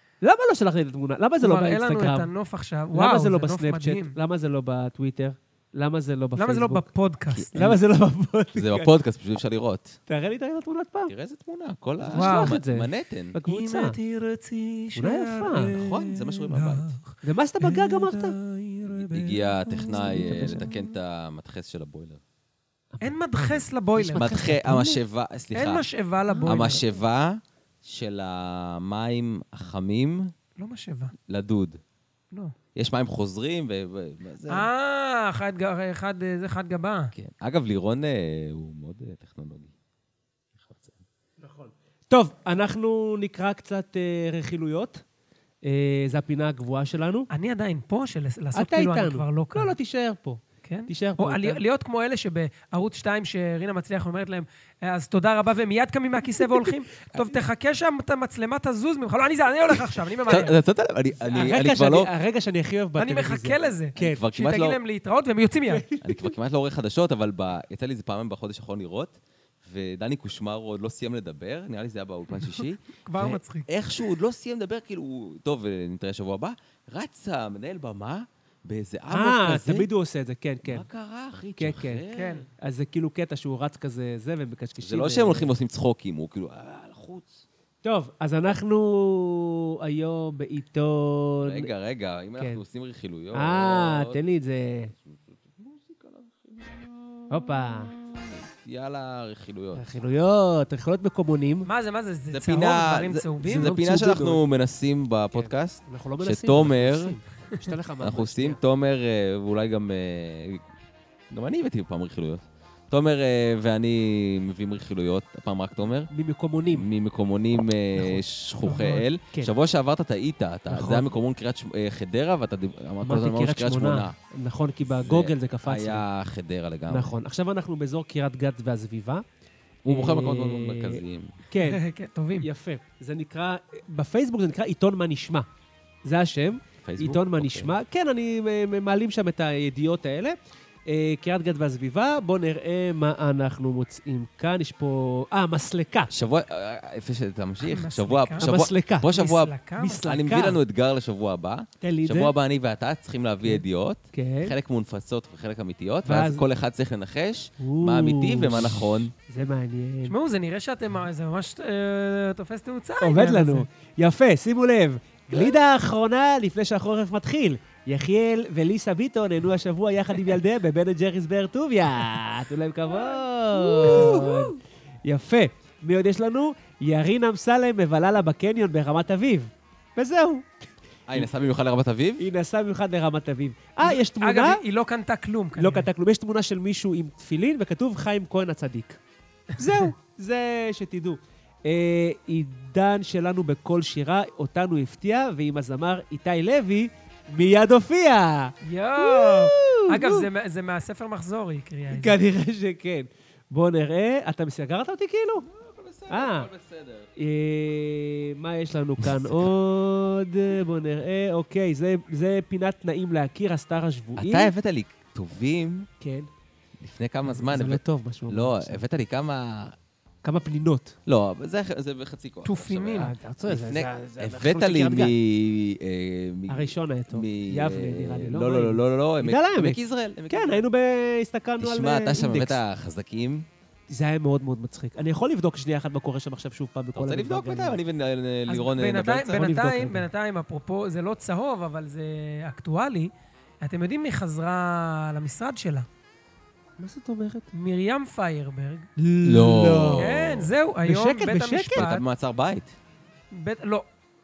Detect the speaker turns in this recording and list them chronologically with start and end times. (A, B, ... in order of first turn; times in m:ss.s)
0:00.2-0:02.3 A
0:01.4-0:04.2 B
0:02.9-0:06.9 A
0:06.4-0:07.5 B
0:07.3-0:07.8 C
0:07.5-0:08.9 A
0:08.5-0:10.0 C
0:10.1-0:11.1 A
0:11.1-0:13.4 C
0:12.0-0:14.0 A
0:12.1-0:12.5 B
0:13.5-0:19.0 B
0:15.0-0:15.7 A
0:15.7-0:17.0 C
0:17.2-0:18.4 A
0:18.9-0:22.2 C
0:19.5-0:20.7 A
0:22.9-0:25.0 A
0:23.0-0:24.5 B
0:24.2-0:25.9 C
0:25.5-0:26.8 B
0:26.3-0:26.8 A
0:26.5-0:30.3 C
0:30.6-0:31.1 B
0:31.3-0:31.8 C
0:32.8-0:34.7 C
0:34.5-0:37.1 B
0:37.2-0:39.7 C
0:40.6-0:41.0 C
0:41.4-0:45.0 A
0:45.6-0:47.3 A
0:47.3-0:49.8 B
0:48.5-0:51.6 A
0:50.6-1:00.6 B
1:00.3-1:02.1 C
1:01.2-1:04.2 A
1:03.0-1:05.9 B
1:04.0-1:04.8 C
1:05.7-1:06.4 A
1:06.0-1:19.9 C
1:13.1-1:13.7 B
1:19.1-1:20.9 A
1:20.6-1:22.4 C
1:21.6-1:22.1 A
1:22.1-1:22.5 B
1:22.6-1:25.5 A
1:24.8-1:27.4 C
1:27.8-1:31.7 A
1:31.4-1:34.2 C
1:33.3-1:34.9 A
1:35.0-1:39.9 C
1:37.3-1:37.9 A
1:39.8-1:41.7 A
1:41.6-1:43.7 B
1:42.3-1:47.2 C
1:43.4-1:44.4 A
1:45.3-1:48.6 A
1:48.0-1:50.6 C
1:51.3-1:56.1 C
1:56.1-1:56.9 A
1:56.7-2:04.2 C
1:58.6-1:59.0 B
2:00.7-2:01.1 A
2:03.0-2:06.0 A
2:04.9-2:07.2 C
2:06.9-2:09.2 A
2:09.8-2:11.3 C
2:09.9-2:11.8 A
2:11.6-2:12.5 B
2:12.4-2:15.5 A
2:16.0-2:26.1 A
2:16.8-2:17.7 C
2:26.1-2:39.1 C
2:27.6-2:28.5 B
2:28.4-2:29.2 A
2:29.1-2:30.2 B
2:29.8-2:30.6 A
2:31.8-2:32.4 A
2:33.4-2:34.6 A
2:36.0-2:36.4 A
2:37.6-2:40.2 A
2:40.0-2:43.7 B
2:43.0-3:01.3 A
2:53.6-2:54.5 C
3:01.1-3:02.3 C
3:02.2-3:04.6 A
3:03.8-3:05.9 B
3:05.6-3:09.0 A
3:09.6-3:20.3 A
3:09.6-3:09.9 B
3:18.6-3:22.2 B
3:21.9-3:25.5 A
3:25.5-3:27.1 C
3:26.1-3:26.5 A
3:27.2-3:34.5 A
3:29.0-3:29.4 C
3:34.2-3:35.9 C
3:36.0-3:36.3 A
3:36.8-3:39.8 C
3:37.2-3:38.8 A
3:40.2-3:41.0 A
3:41.1-3:50.7 C
3:42.4-3:43.1 B
3:43.0-3:45.2 A
3:46.5-3:49.8 A
3:50.3-3:52.6 A
3:51.6-3:53.5 C
3:53.9-3:57.8 A
3:57.0-3:59.5 C
3:58.5-4:05.9 B
3:59.3-4:00.1 A
4:06.8-4:07.5 A
4:07.5-4:08.9 B
4:09.0-4:10.2 A
4:09.2-4:10.5 C
4:10.0-4:12.0 B
4:10.8-4:11.9 A
4:11.8-4:12.8 C
4:13.3-4:13.9 B